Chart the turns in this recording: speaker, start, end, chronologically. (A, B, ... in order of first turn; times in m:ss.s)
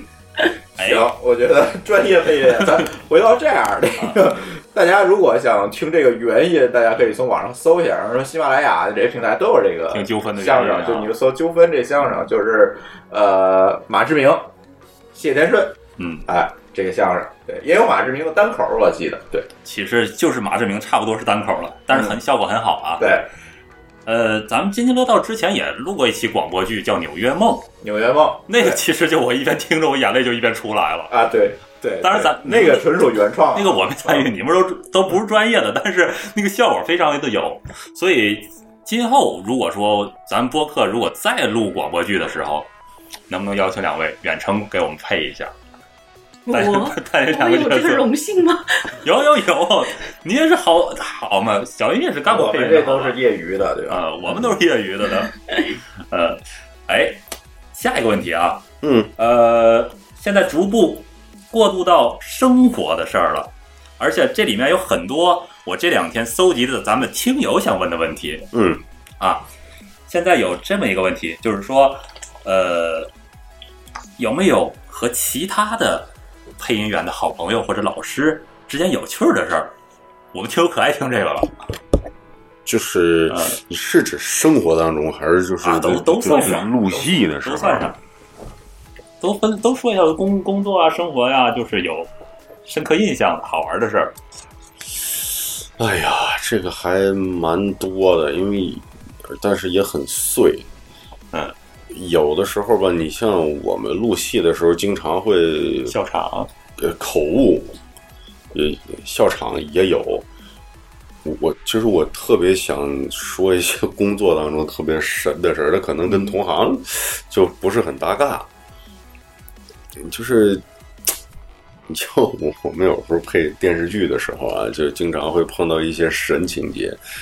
0:00.8-0:14.5 A
0:00.8-0:01.0 B
0:09.9-0:11.1 B
0:15.1-0:19.5 A
0:16.0-0:16.2 B
0:19.6-0:23.1 B
0:23.0-0:23.3 A
0:24.0-0:27.7 B
0:27.8-0:28.8 A
0:28.5-0:31.1 B
0:31.1-0:34.2 A
0:32.0-0:32.9 B
0:33.5-0:42.7 B
0:43.3-0:45.5 B
0:46.4-0:48.9 C
0:46.5-0:48.0 B
0:49.0-0:53.2 B
0:52.3-0:54.0 A
0:53.9-0:55.3 B
0:56.1-0:57.2 B
0:57.7-0:58.6 B
0:58.8-0:59.1 D
0:59.2-1:08.5 B
1:08.5-1:08.8 D
1:09.2-1:09.5 B
1:10.1-1:13.1 B
1:14.2-1:19.7 B
1:20.3-1:21.5 B
1:22.6-1:28.0 D
1:23.3-1:23.6 B
1:25.6-1:28.0 B
1:29.2-1:32.1 B
1:32.6-1:34.1 B
1:35.8-1:40.7 D
1:41.9-1:46.0 D
1:45.9-1:46.5 B
1:46.8-1:47.8 D
1:48.5-1:50.2 D
1:51.2-1:58.5 D
1:56.1-1:56.3 B
2:00.0-2:00.6 D
2:01.9-2:07.0 D